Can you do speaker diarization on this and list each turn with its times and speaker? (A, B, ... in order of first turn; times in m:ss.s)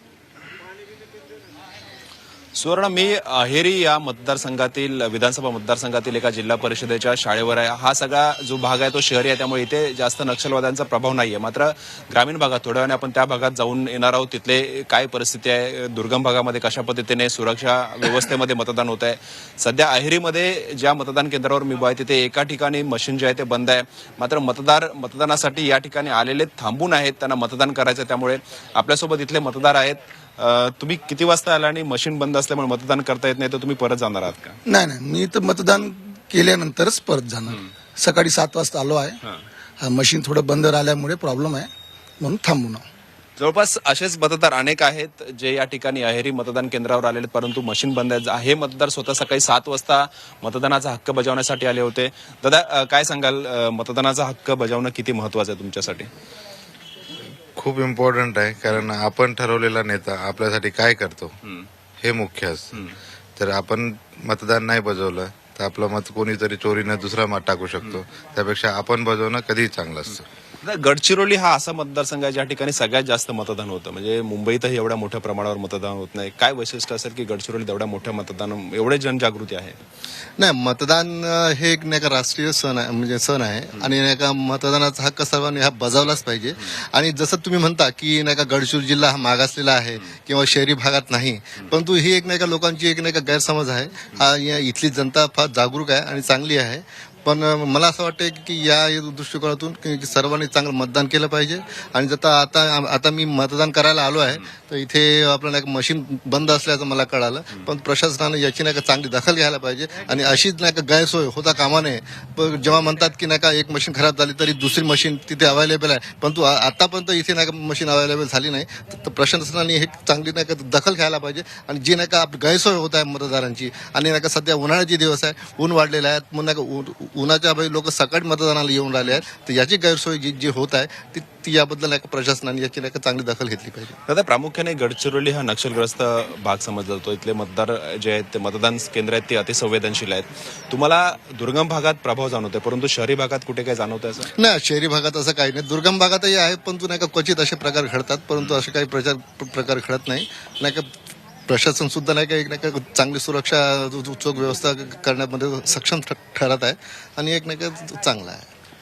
0:02.5-0:34.6 A
0:34.6-0:39.2 B
0:39.8-0:42.8 B
0:43.4-0:56.1 A
0:57.5-1:01.4 C
1:02.0-1:02.8 C
1:03.4-1:10.3 C
1:10.6-1:19.8 A
1:20.4-2:14.0 D
2:14.1-2:24.3 A
2:24.3-2:30.9 D
2:31.5-2:38.5 D